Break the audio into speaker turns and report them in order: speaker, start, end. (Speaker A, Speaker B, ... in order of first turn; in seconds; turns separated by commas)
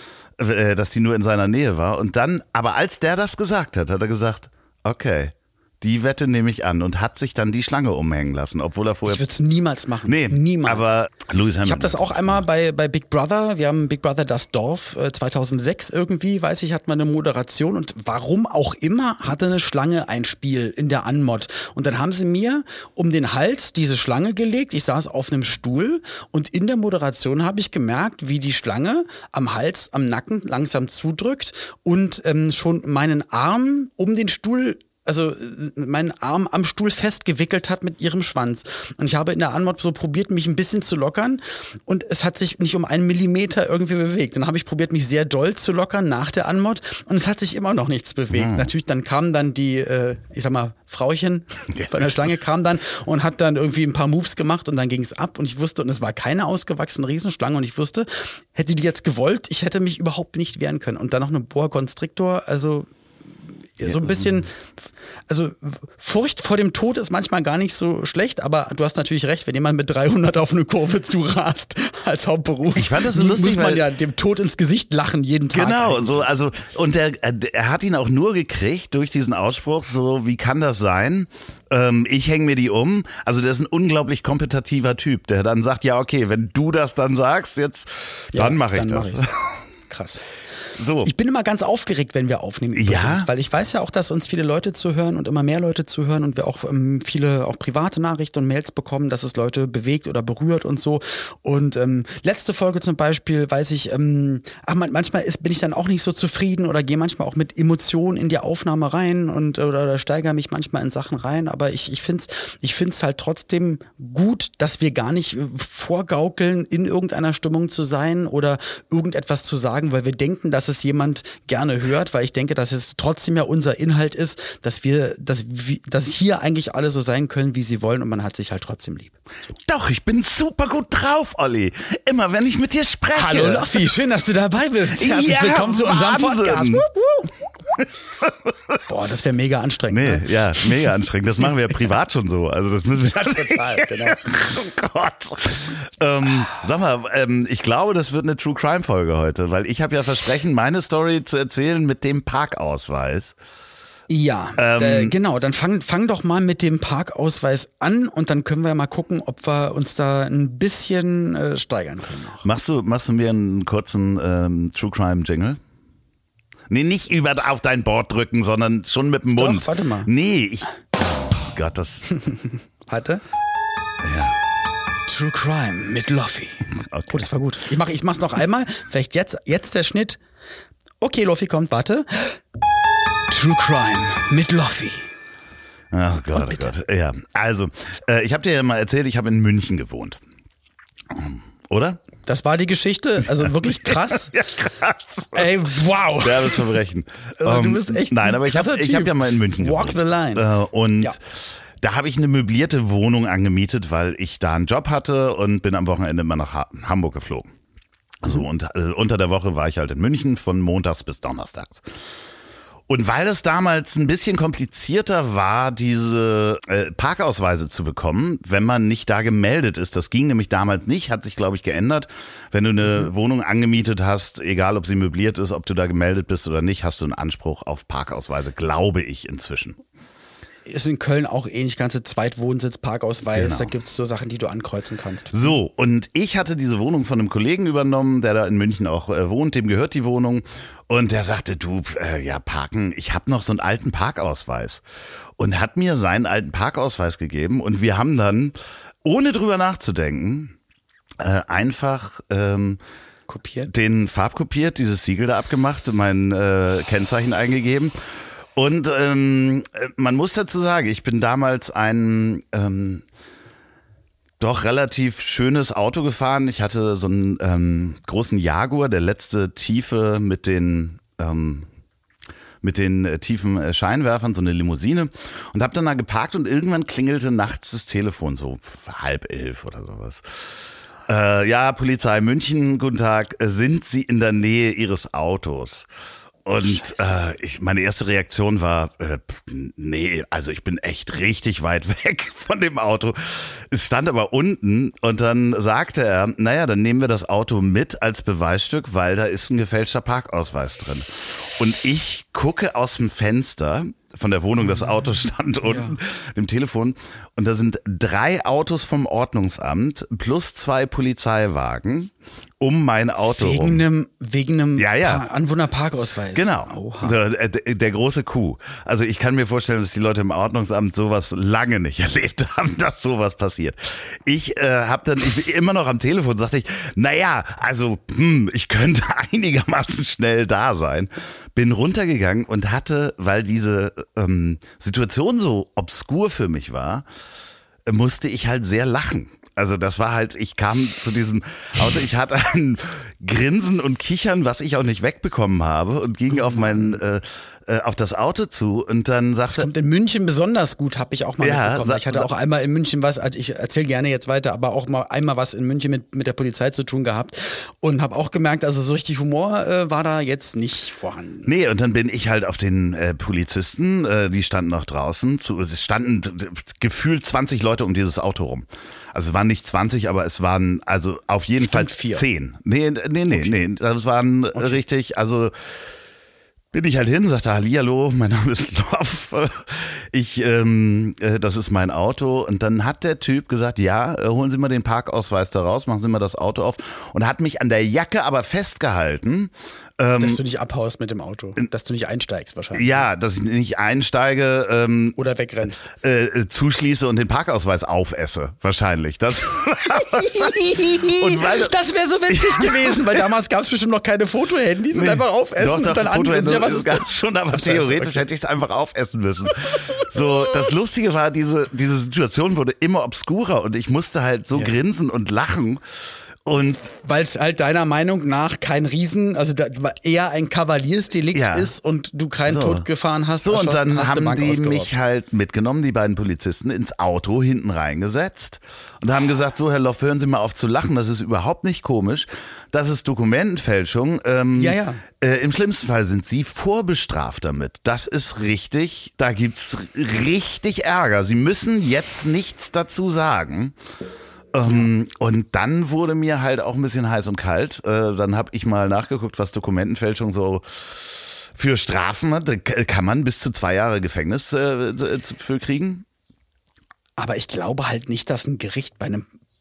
Speaker A: 0.4-9.2, Speaker B: 9.1-11.0, Speaker A: 10.1-12.4, Speaker B: 11.7-62.9, Speaker A: 48.3-48.7, Speaker A: 51.7-52.3, Speaker B: 63.8-64.5, Speaker A: 63.8-64.5, Speaker B: 65.3-76.3, Speaker A: 72.8-73.8, Speaker A: 75.5-89.6, Speaker B: 88.3-89.3, Speaker B: 89.9-90.2, Speaker A: 90.8-91.1, Speaker B: 91.0-129.2, Speaker A: 92.8-93.3, Speaker A: 129.7-133.8, Speaker B: 133.1-137.3, Speaker A: 134.9-136.9, Speaker A: 137.7-138.8, Speaker B: 138.9-140.3, Speaker A: 139.9-153.3, Speaker B: 143.0-144.2, Speaker B: 154.1-162.4, Speaker A: 154.6-155.1, Speaker A: 162.4-165.6, Speaker A: 166.7-172.1, Speaker B: 169.4-170.1, Speaker B: 172.1-173.2, Speaker A: 174.0-174.4, Speaker B: 175.1-180.2, Speaker A: 176.9-177.3, Speaker B: 181.0-182.4, Speaker B: 183.3-185.1, Speaker A: 185.9-190.2, Speaker B: 186.3-186.7, Speaker A: 191.1-192.0, Speaker B: 192.3-194.4, Speaker A: 193.4-195.5, Speaker B: 195.3-196.7, Speaker A: 196.2-201.2, Speaker B: 197.4-200.5, Speaker A: 201.8-207.5, Speaker A: 208.2-211.9, Speaker A: 212.9-229.8, Speaker B: 230.7-235.6, Speaker A: 233.3-233.7, Speaker A: 235.3-244.8, Speaker A: 245.4-250.6, Speaker A: 251.2-252.8, Speaker B: 253.3-253.7, Speaker A: 253.7-258.0, Speaker A: 258.6-263.0, Speaker A: 264.4-271.7, Speaker A: 272.6-280.4, Speaker A: 281.1-285.9, Speaker A: 286.4-313.8, Speaker B: 286.6-287.1, Speaker B: 305.6-306.0, Speaker B: 313.3-317.2, Speaker A: 314.8-315.2, Speaker A: 316.4-337.1, Speaker A: 337.9-349.7, Speaker B: 346.3-347.0, Speaker B: 349.5-361.5, Speaker A: 351.4-352.3, Speaker A: 361.5-375.5, Speaker B: 371.6-372.2, Speaker B: 374.6-374.8, Speaker A: 376.7-390.4, Speaker B: 390.2-393.1, Speaker A: 392.8-395.2, Speaker B: 395.2-395.9, Speaker A: 395.9-401.8, Speaker B: 399.9-408.3, Speaker A: 402.3-403.2, Speaker A: 404.9-415.8, Speaker A: 416.4-416.9, Speaker B: 417.0-424.9, Speaker A: 421.3-421.7, Speaker A: 422.5-422.9, Speaker A: 423.4-443.8, Speaker B: 434.5-435.0, Speaker A: 444.5-450.6, Speaker A: 451.6-456.1, Speaker B: 457.2-459.3